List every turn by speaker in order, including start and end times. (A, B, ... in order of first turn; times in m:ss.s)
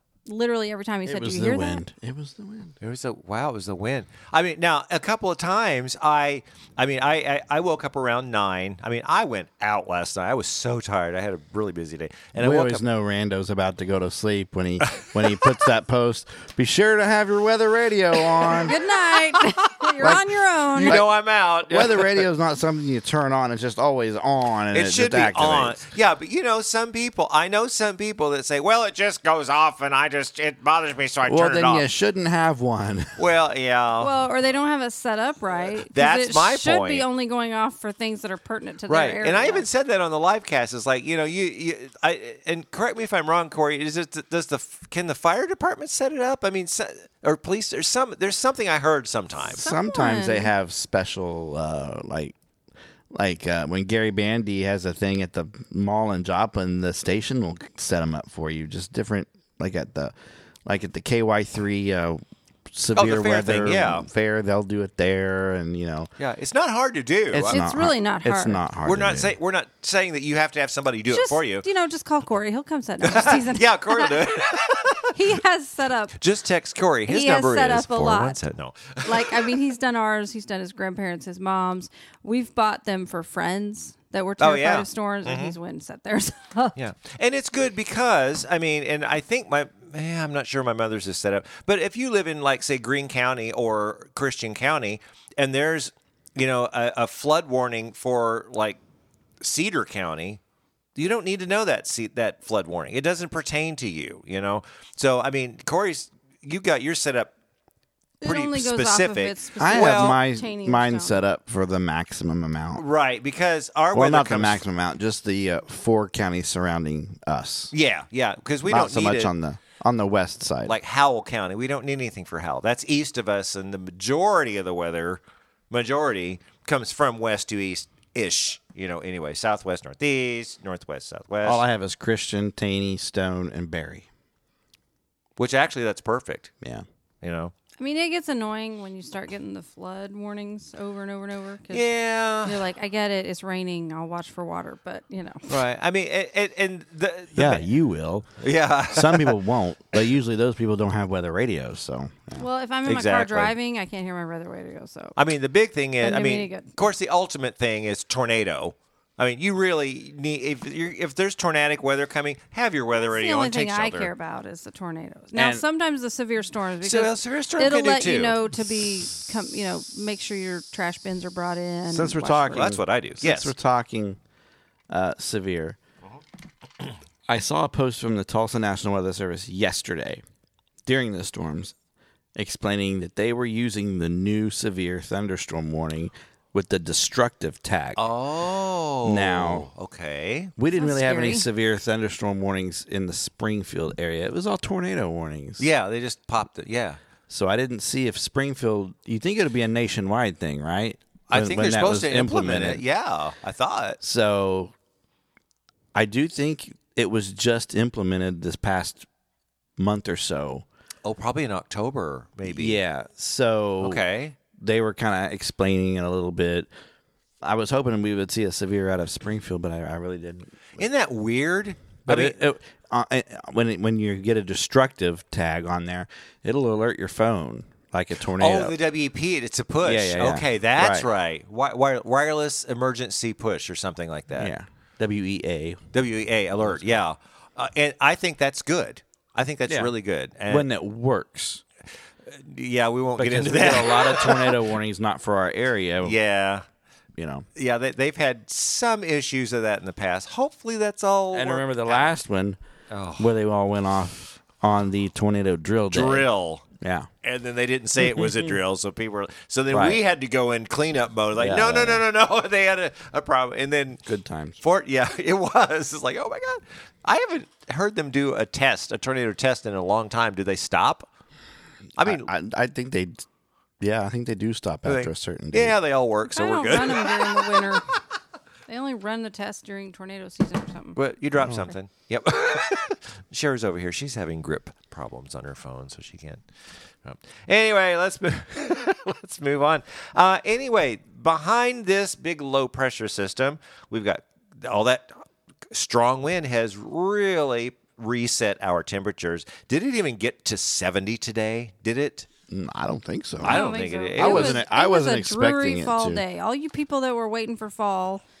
0:00.2-0:01.8 A
0:01.0-0:02.7 B
0:02.8-0:12.8 C
0:12.4-0:18.8 B
0:18.5-0:21.0 A
0:19.8-0:20.2 C
0:20.0-0:21.1 B
0:20.7-0:22.2 C
0:21.6-0:25.8 B
0:24.7-0:31.8 C
0:31.2-0:33.2 B
0:33.2-0:34.1 C
0:34.0-0:39.6 A
0:35.9-0:37.0 C
0:38.9-0:49.6 C
0:49.6-0:50.5 A
0:49.6-0:52.3 B
0:53.1-1:00.1 B
1:00.6-1:06.1 B
1:02.9-1:04.0 C
1:06.2-1:07.6 C
1:07.3-1:09.3 B
1:07.5-1:08.6 A
1:08.8-1:11.6 C
1:11.1-1:14.2 A
1:13.0-1:15.1 C
1:15.1-1:16.2 A
1:16.2-1:19.5 C
1:17.1-1:18.4 A
1:19.0-1:26.8 A
1:24.4-1:25.6 C
1:26.8-1:38.8 C
1:39.4-1:40.4 C
1:40.9-1:47.3 C
1:48.2-1:51.2 A
1:48.2-1:50.2 C
1:49.6-1:52.8 B
1:52.7-1:54.6 C
1:53.9-1:57.7 B
1:57.7-1:59.3 C
1:58.7-2:00.8 B
2:00.6-2:11.6 C
2:11.4-2:14.0 B
2:15.4-2:16.5 C
2:17.2-2:17.5 C
2:17.8-2:21.9 A
2:21.7-2:22.6 C
2:22.4-2:25.6 A
2:25.5-2:27.7 C
2:27.3-2:28.3 B
2:28.4-2:29.4 C
2:28.9-2:32.4 B
2:32.4-2:35.2 A
2:32.8-2:33.5 C
2:35.2-2:44.1 C
2:36.0-2:36.7 A
2:43.0-2:52.7 A
2:45.4-2:45.6 B
2:46.8-2:48.4 C
2:51.9-2:54.2 B
2:52.5-2:53.5 C
2:54.9-2:55.8 B
2:57.3-3:00.2 B
3:00.8-3:01.7 B
3:02.4-3:08.0 B
3:08.0-3:10.5 C
3:09.0-3:09.7 B
3:10.6-3:15.7 B
3:10.7-3:11.4 A
3:15.6-3:17.0 C
3:17.3-3:22.8 B
3:21.3-3:24.0 C
3:24.0-3:24.7 B
3:25.9-3:29.1 B
3:29.8-3:30.6 B
3:31.0-3:32.8 C
3:32.4-3:34.0 B
3:33.8-3:34.4 C
3:34.5-3:36.7 B
3:37.4-3:40.8 B
3:40.8-3:42.4 C
3:42.0-3:48.8 B
3:48.4-3:54.5 C
3:49.8-3:51.1 B
3:54.4-3:55.8 B
3:55.9-4:00.7 C
3:56.6-3:57.0 B
3:59.7-3:59.9 B
4:00.5-4:01.6 B
4:02.3-4:04.6 C
4:03.2-4:06.2 B
4:06.0-4:06.6 C
4:07.1-4:07.5 B
4:07.5-4:12.2 C
4:11.3-4:12.6 B
4:12.9-4:13.3 C
4:13.2-4:16.3 B
4:15.9-4:16.6 C
4:16.8-4:17.1 B
4:17.2-4:24.0 C
4:18.1-4:18.5 B
4:19.7-4:20.0 B
4:21.4-4:22.0 B
4:24.0-4:24.6 B
4:24.6-4:31.1 C
4:32.0-4:32.3 C
4:32.0-4:33.2 B
4:33.8-4:35.8 B
4:34.8-4:37.7 C
4:36.3-4:37.8 A
4:38.7-4:41.0 A
4:41.0-4:46.4 C
4:47.0-4:55.1 C
4:55.7-5:02.3 C
5:02.5-5:06.2 B
5:03.4-5:04.6 C
5:03.4-5:08.2 A